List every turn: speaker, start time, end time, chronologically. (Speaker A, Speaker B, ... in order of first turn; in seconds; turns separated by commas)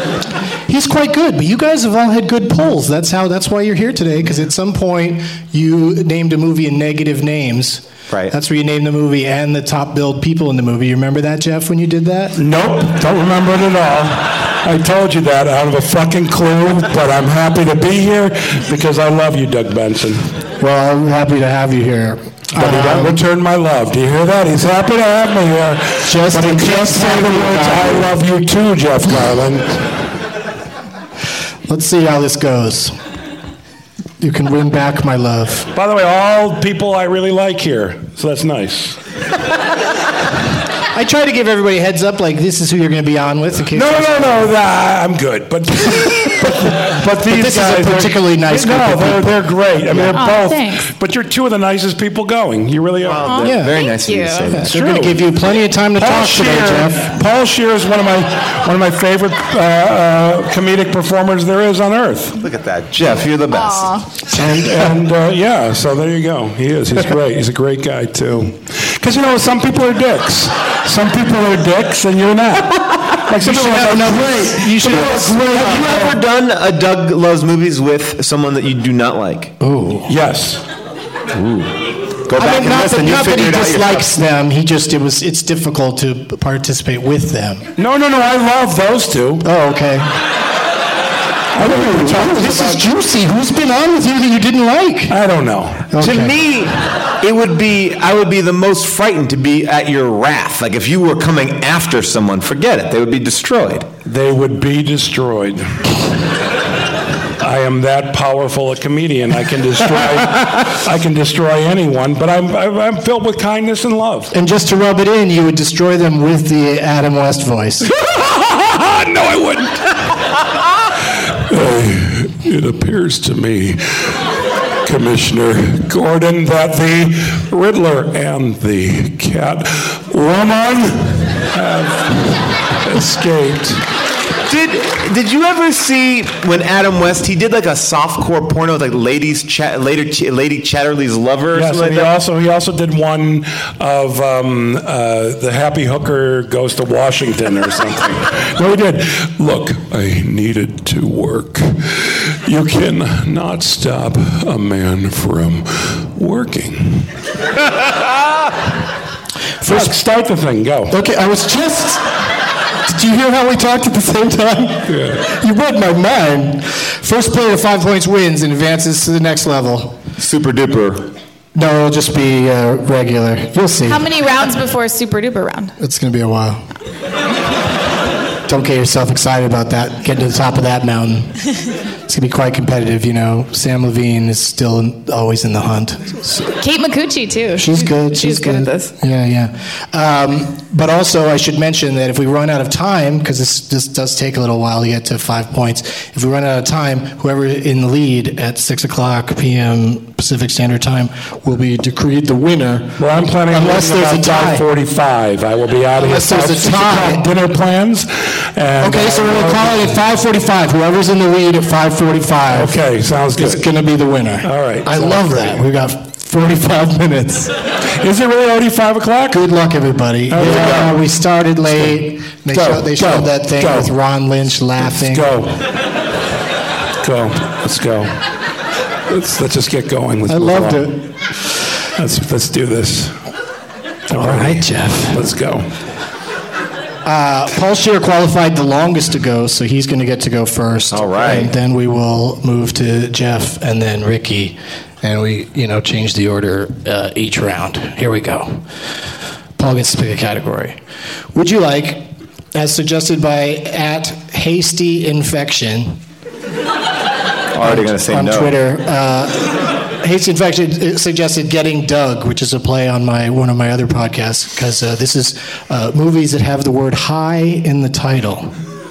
Speaker A: 0.7-12.4, Speaker B: 12.4-20.3, Speaker A: 20.6-23.2, Speaker B: 22.5-29.8, Speaker A: 26.1-28.1, Speaker A: 31.7-33.0, Speaker A: 34.2-35.7, Speaker B: 35.7-39.0, Speaker A: 40.9-44.5, Speaker B: 43.7-53.3, Speaker A: 47.2-50.2, Speaker C: 50.1-50.9, Speaker D: 53.0-54.7, Speaker C: 53.2-54.6, Speaker A: 53.4-53.7, Speaker A: 54.5-57.1, Speaker B: 54.7-55.3, Speaker B: 56.0-62.4, Speaker D: 62.4-64.1, Speaker C: 63.5-64.1, Speaker B: 64.3-76.2, Speaker A: 73.3-76.1, Speaker D: 75.6-79.5, Speaker A: 79.6-80.1, Speaker B: 80.1-80.6, Speaker D: 81.3-84.1, Speaker A: 82.3-87.7, Speaker B: 87.8-89.5, Speaker A: 89.4-90.1, Speaker B: 91.5-92.8, Speaker A: 91.6-95.2, Speaker B: 95.1-95.9, Speaker A: 95.9-96.3, Speaker D: 96.0-103.9, Speaker B: 104.0-105.8, Speaker B: 107.4-114.3, Speaker A: 114.3-117.9, Speaker B: 117.9-119.9, Speaker B: 121.3-124.2, Speaker B: 124.8-133.8, Speaker D: 134.5-142.1, Speaker B: 141.5-157.1, Speaker A: 159.6-159.9, Speaker B: 159.7-160.9, Speaker A: 160.9-162.1, Speaker A: 162.9-170.0, Speaker B: 164.9-165.2, Speaker D: 170.2-171.1, Speaker A: 171.6-174.1, Speaker C: 173.8-175.7, Speaker A: 175.8-176.6, Speaker A: 178.5-181.4, Speaker A: 182.1-186.5, Speaker C: 186.6-188.9, Speaker A: 187.6-204.7, Speaker B: 203.0-210.0, Speaker A: 206.0-207.3, Speaker A: 208.8-212.8, Speaker B: 212.5-213.7, Speaker A: 213.4-217.5, Speaker B: 214.4-215.6, Speaker B: 218.0-219.4, Speaker A: 219.3-225.3, Speaker B: 220.3-221.0, Speaker D: 220.4-220.8, Speaker B: 222.5-223.9, Speaker B: 224.8-225.7, Speaker B: 227.0-228.2, Speaker B: 229.1-230.9, Speaker A: 230.3-231.1, Speaker B: 232.0-233.2, Speaker B: 234.1-235.7, Speaker A: 234.1-235.2, Speaker A: 237.1-248.6, Speaker D: 240.9-241.5, Speaker A: 249.6-250.8, Speaker A: 251.3-256.0, Speaker D: 257.5-258.6, Speaker A: 257.6-268.6